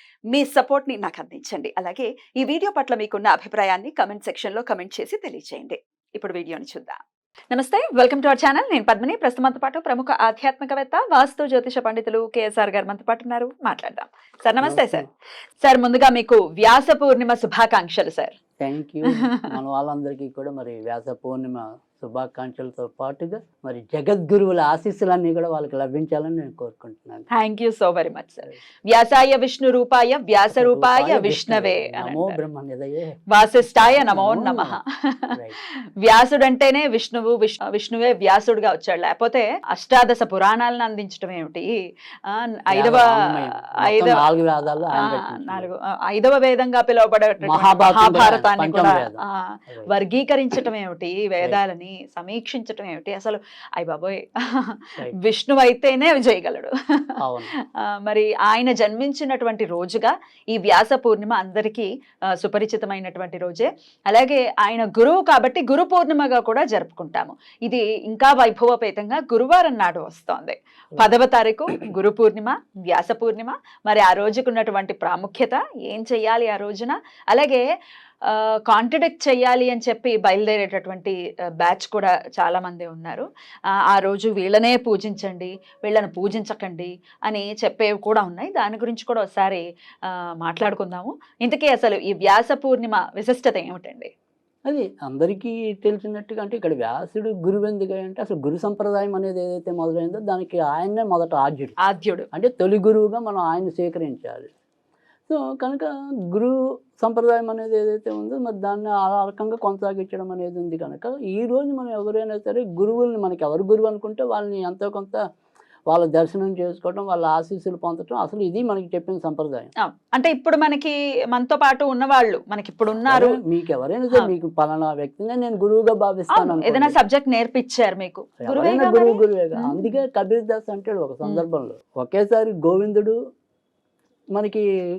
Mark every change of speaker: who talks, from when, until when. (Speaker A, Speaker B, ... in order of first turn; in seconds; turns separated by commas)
Speaker A: 0.3-7.0, Speaker A: 7.5-15.1, Speaker B: 14.6-15.1, Speaker A: 15.6-18.4, Speaker B: 18.6-27.2, Speaker A: 27.3-32.4, Speaker B: 30.5-34.8, Speaker A: 33.3-44.3, Speaker B: 42.7-45.7, Speaker A: 44.9-77.6, Speaker B: 47.4-49.9, Speaker B: 57.2-57.5, Speaker A: 78.2-83.2, Speaker A: 83.9-94.1, Speaker B: 94.7-101.8, Speaker A: 101.8-102.3, Speaker B: 102.3-104.5, Speaker B: 105.3-115.2, Speaker B: 115.9-119.7, Speaker A: 119.8-123.4, Speaker B: 122.9-127.0, Speaker A: 126.3-130.0, Speaker B: 128.4-133.2, Speaker B: 134.3-134.6